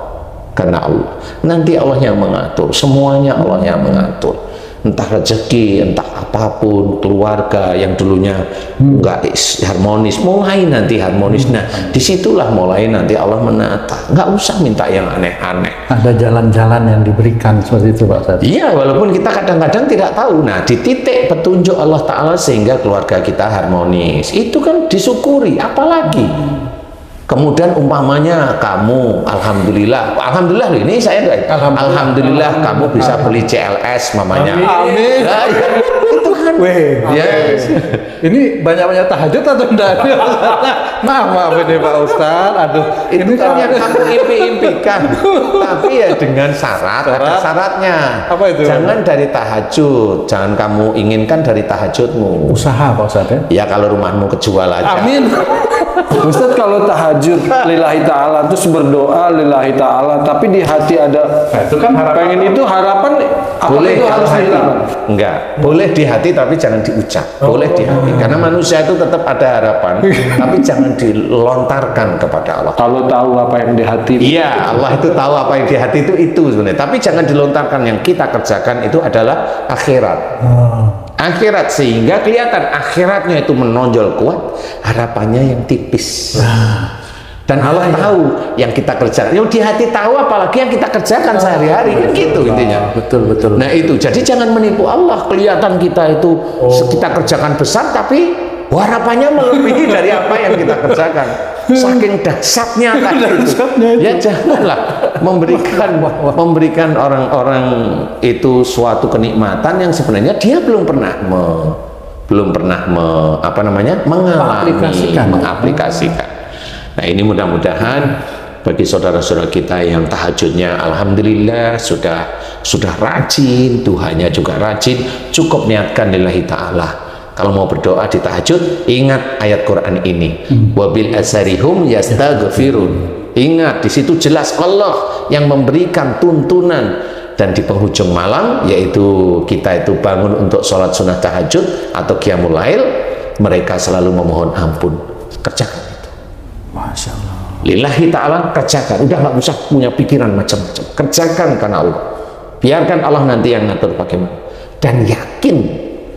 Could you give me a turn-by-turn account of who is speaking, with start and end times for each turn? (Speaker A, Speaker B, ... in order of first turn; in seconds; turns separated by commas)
Speaker A: 0.6-15.8, Speaker B: 8.8-9.1, Speaker B: 11.4-11.8, Speaker B: 15.9-18.4, Speaker A: 18.4-26.5, Speaker A: 27.3-38.0, Speaker B: 31.5-33.4, Speaker B: 34.4-46.0, Speaker A: 43.1-52.6, Speaker B: 47.1-47.5, Speaker B: 48.3-49.0, Speaker B: 52.5-53.5, Speaker A: 53.5-55.3, Speaker B: 54.9-56.2, Speaker C: 56.1-64.9, Speaker B: 61.5-62.4, Speaker A: 63.7-72.8, Speaker B: 68.1-68.4, Speaker C: 72.8-74.6, Speaker A: 74.2-80.3, Speaker B: 80.4-81.0, Speaker A: 81.2-86.5, Speaker B: 86.4-86.9, Speaker A: 87.5-92.9, Speaker B: 87.6-88.1, Speaker B: 91.4-93.9, Speaker A: 93.5-116.3, Speaker B: 96.6-97.1, Speaker B: 99.7-100.9, Speaker B: 101.7-102.0, Speaker B: 103.0-106.4, Speaker B: 114.4-116.0, Speaker A: 117.0-146.1, Speaker B: 146.7-147.6, Speaker A: 147.6-152.1, Speaker A: 152.6-155.8